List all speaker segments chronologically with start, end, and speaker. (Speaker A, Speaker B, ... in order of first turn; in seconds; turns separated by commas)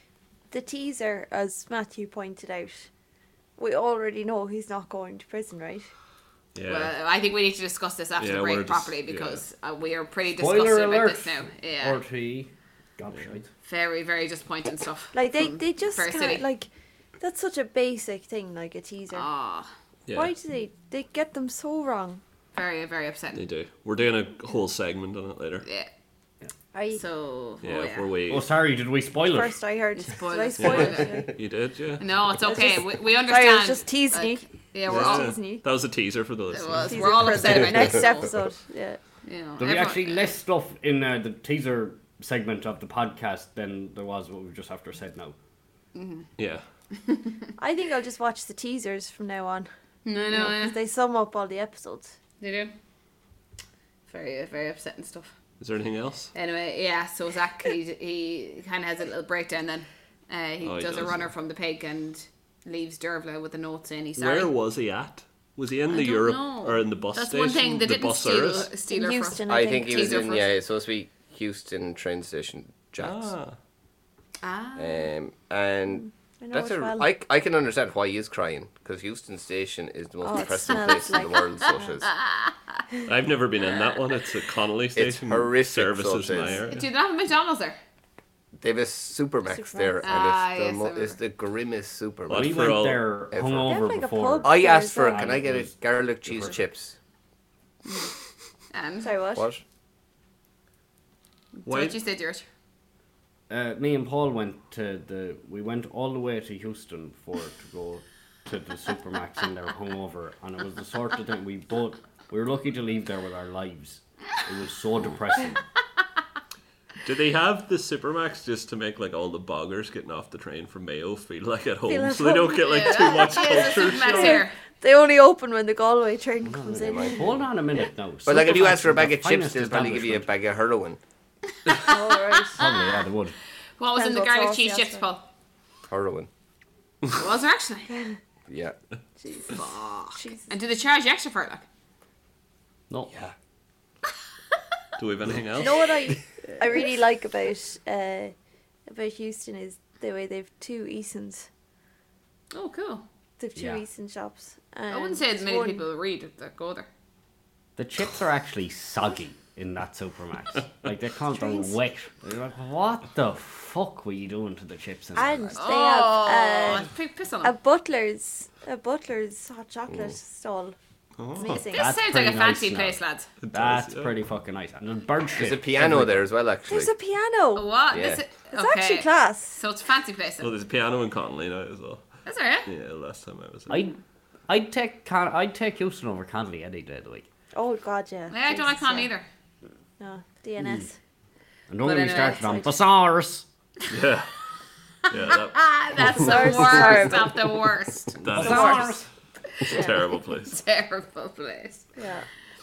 Speaker A: 0.5-2.9, Speaker A: 3.6-5.9, Speaker B: 6.5-6.9, Speaker C: 6.7-12.0, Speaker B: 8.2-9.4, Speaker D: 10.4-13.5, Speaker C: 13.6-16.5, Speaker A: 15.1-16.7, Speaker A: 17.2-19.3, Speaker C: 19.1-19.7, Speaker B: 20.1-20.3, Speaker A: 20.1-22.2, Speaker C: 22.5-23.4, Speaker B: 23.4-25.6, Speaker C: 25.6-25.9, Speaker A: 26.7-27.0, Speaker C: 26.9-28.1, Speaker B: 27.6-28.5, Speaker D: 28.3-29.6, Speaker A: 29.3-31.3, Speaker C: 30.0-31.4, Speaker B: 30.6-32.2, Speaker C: 32.0-35.4, Speaker A: 32.4-35.6, Speaker B: 34.9-37.7, Speaker C: 36.5-38.3, Speaker A: 36.9-39.0, Speaker C: 39.2-40.3, Speaker D: 39.6-45.4, Speaker C: 46.0-46.3, Speaker B: 46.4-46.6, Speaker C: 46.9-47.5, Speaker A: 47.6-49.7, Speaker C: 50.0-50.8, Speaker A: 50.3-52.1, Speaker C: 52.4-52.7, Speaker C: 54.1-55.4, Speaker B: 55.6-56.3, Speaker C: 56.3-64.5, Speaker B: 60.6-61.3, Speaker B: 64.2-68.7, Speaker C: 65.9-70.5, Speaker A: 68.9-70.3, Speaker E: 69.5-73.3, Speaker B: 73.0-73.6, Speaker C: 74.4-75.1, Speaker E: 74.8-82.1, Speaker A: 76.0-77.1, Speaker A: 80.2-81.9, Speaker C: 82.2-82.5, Speaker B: 83.1-86.9, Speaker E: 85.0-86.6, Speaker C: 86.7-87.8, Speaker E: 88.6-92.8, Speaker A: 89.5-90.1, Speaker C: 90.0-91.2, Speaker B: 92.3-93.1, Speaker D: 92.3-95.7, Speaker E: 93.3-93.7, Speaker A: 93.6-95.4, Speaker E: 94.4-97.0, Speaker D: 96.2-96.6, Speaker C: 98.7-99.1, Speaker A: 99.0-99.5, Speaker E: 99.3-99.6, Speaker C: 101.6-102.5, Speaker B: 101.7-102.0, Speaker D: 103.5-115.6, Speaker B: 117.0-124.5, Speaker A: 121.9-127.3, Speaker C: 122.6-124.6, Speaker D: 126.5-130.3, Speaker E: 126.8-127.3, Speaker E: 128.2-131.0, Speaker C: 131.6-132.9, Speaker A: 131.7-132.7, Speaker D: 132.6-133.3, Speaker C: 133.8-135.3, Speaker A: 133.9-135.1, Speaker E: 135.9-136.3, Speaker C: 137.1-137.9, Speaker A: 137.9-138.2, Speaker E: 138.5-138.8, Speaker A: 139.2-140.5, Speaker C: 139.5-141.7, Speaker D: 142.9-143.2, Speaker B: 145.0-146.0, Speaker A: 145.6-148.3, Speaker A: 148.9-151.5, Speaker C: 152.5-153.0, Speaker A: 153.4-155.8, Speaker D: 153.6-153.8, Speaker C: 154.9-156.9, Speaker D: 157.8-165.6, Speaker A: 161.3-161.7, Speaker A: 165.2-166.9, Speaker C: 165.6-167.6, Speaker A: 167.4-170.8, Speaker E: 169.9-170.2, Speaker B: 171.2-171.6, Speaker A: 171.4-171.9, Speaker D: 171.6-173.0, Speaker C: 171.7-173.3, Speaker B: 173.4-174.1, Speaker D: 173.5-176.1, Speaker E: 175.4-176.9, Speaker A: 176.7-177.7, Speaker C: 177.6-180.5, Speaker E: 177.9-178.2, Speaker A: 178.5-179.6, Speaker B: 180.4-182.1, Speaker C: 182.3-182.7, Speaker B: 182.7-183.8, Speaker D: 183.7-187.3, Speaker A: 187.5-189.1, Speaker C: 188.3-189.3, Speaker A: 190.0-190.9, Speaker D: 190.6-190.8, Speaker D: 191.7-193.5, Speaker C: 191.8-192.6, Speaker A: 192.0-192.7, Speaker B: 193.9-194.4, Speaker B: 195.1-195.7, Speaker C: 195.2-198.2, Speaker A: 196.0-197.5, Speaker B: 198.2-199.0, Speaker D: 198.2-199.1, Speaker A: 198.4-198.9, Speaker C: 199.6-199.9, Speaker B: 199.6-200.6, Speaker A: 199.7-200.0, Speaker C: 200.5-201.9, Speaker A: 202.0-202.3